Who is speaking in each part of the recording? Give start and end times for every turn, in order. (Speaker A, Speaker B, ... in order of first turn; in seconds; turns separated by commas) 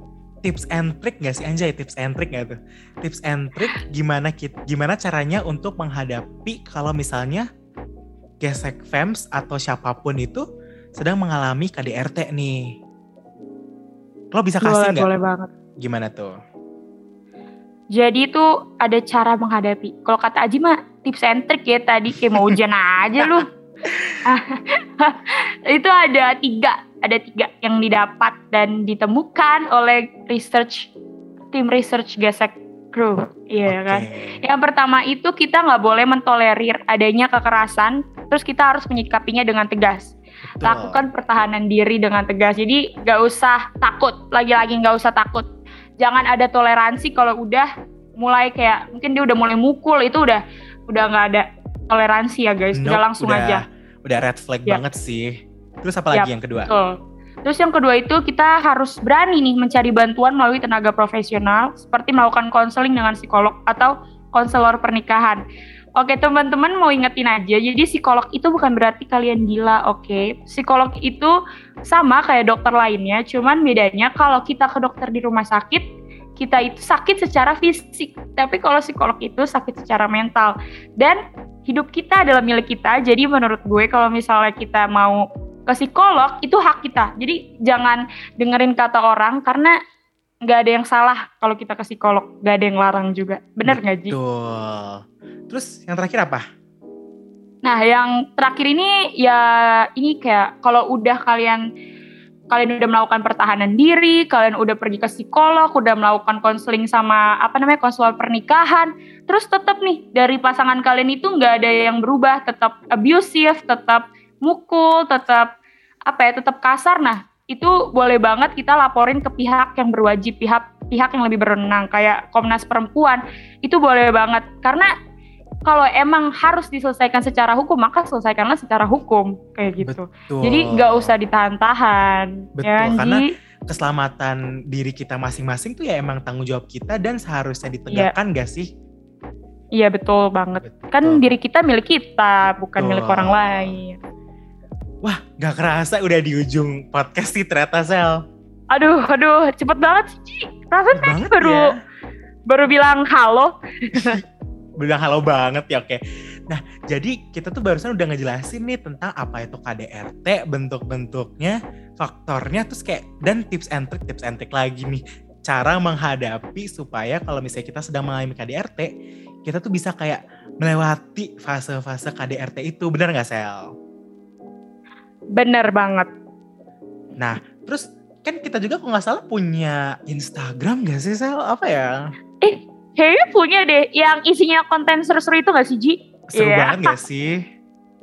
Speaker A: 0.4-7.5, Speaker A: 8.4-10.4, Speaker A: 11.0-12.7, Speaker A: 14.3-15.1, Speaker B: 14.6-15.5, Speaker A: 15.8-16.3, Speaker B: 17.9-23.5, Speaker A: 23.8-24.2, Speaker B: 24.2-30.9, Speaker B: 31.5-45.5, Speaker A: 33.7-34.4, Speaker A: 40.6-41.0, Speaker B: 46.0-53.6, Speaker A: 52.7-56.7, Speaker B: 56.1-65.4, Speaker B: 66.0-71.3, Speaker B: 71.9-75.8, Speaker B: 76.4-89.7, Speaker B: 90.4-94.2, Speaker A: 93.7-96.4, Speaker B: 97.6-101.6, Speaker B: 102.5-115.5, Speaker B: 116.1-124.9, Speaker B: 125.7-133.3, Speaker A: 129.8-131.1, Speaker A: 132.6-138.7, Speaker B: 139.7-144.0, Speaker A: 140.9-141.2, Speaker A: 142.8-143.8, Speaker A: 145.0-148.2, Speaker B: 148.7-151.7, Speaker A: 150.9-151.8, Speaker B: 152.5-154.2, Speaker A: 153.9-154.2, Speaker A: 154.8-168.9, Speaker A: 169.4-173.7, Speaker B: 175.3-176.1, Speaker A: 177.2-181.9, Speaker B: 182.4-187.0, Speaker A: 186.3-187.4